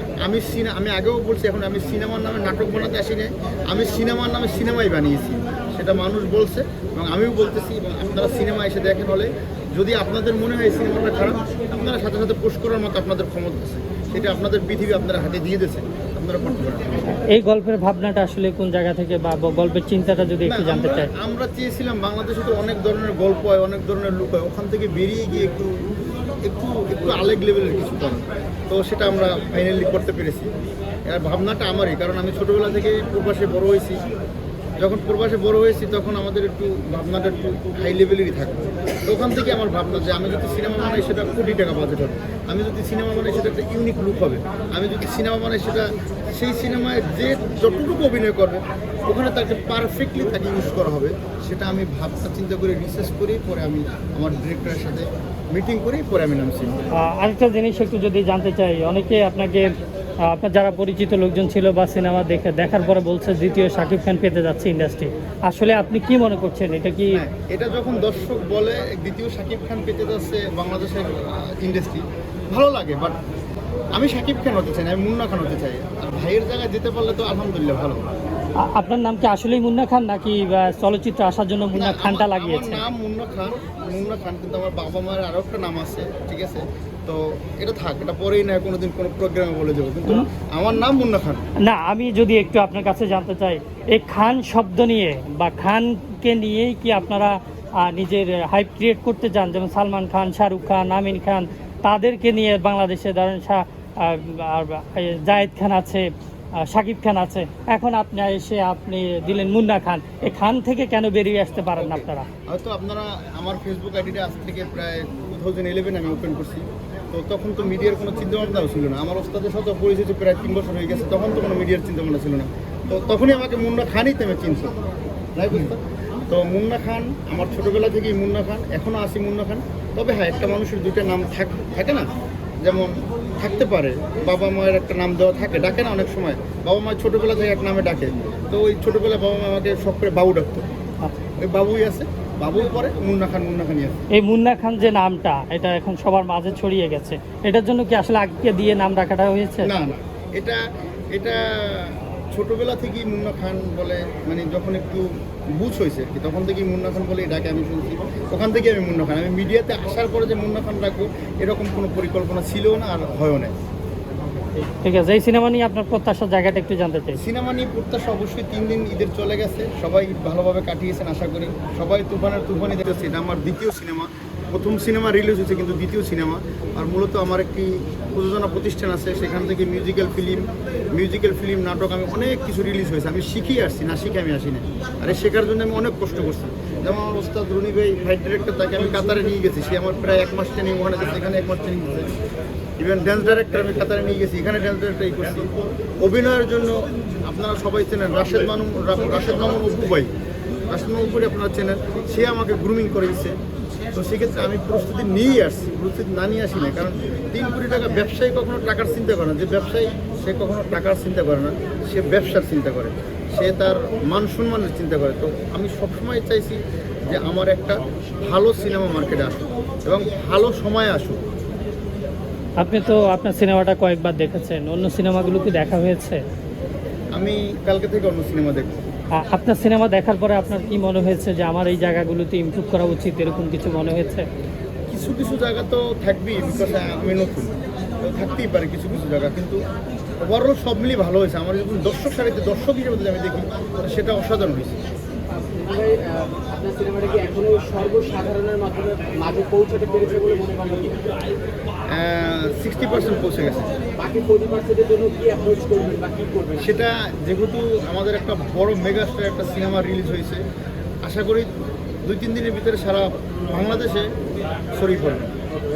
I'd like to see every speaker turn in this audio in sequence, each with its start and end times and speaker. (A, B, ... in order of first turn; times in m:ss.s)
0:00.2-0:17.1 A
0:17.3-0:21.1 B
0:20.4-0:25.8 A
0:26.4-0:30.5 A
0:31.1-0:34.0 A
0:34.8-0:56.7 A
0:57.0-0:59.7 B
1:00.2-1:07.2 B
1:07.1-1:13.2 A
1:13.9-1:18.1 A
1:18.6-1:22.8 B
1:21.7-1:31.4 A
1:31.6-1:52.3 B
1:51.8-2:04.8 A
2:05.4-2:12.1 A
2:12.6-2:20.7 A
2:21.4-2:24.0 A
2:24.1-2:29.7 B
2:29.6-2:43.5 A
2:44.6-2:47.2 B
2:47.2-3:12.1 A
3:12.8-3:20.1 A
3:20.7-3:23.3 A
3:23.9-3:41.2 A
3:42.6-3:46.2 B
3:47.1-3:48.8 A
3:49.1-3:54.2 B
3:54.9-3:59.6 A
4:00.2-4:04.8 A
4:05.3-4:11.0 C
4:11.9-4:13.7 A
4:13.9-4:16.6 C
4:16.6-4:20.4 A
4:21.0-4:21.5 A
4:22.0-4:24.1 A
4:24.7-4:25.3 A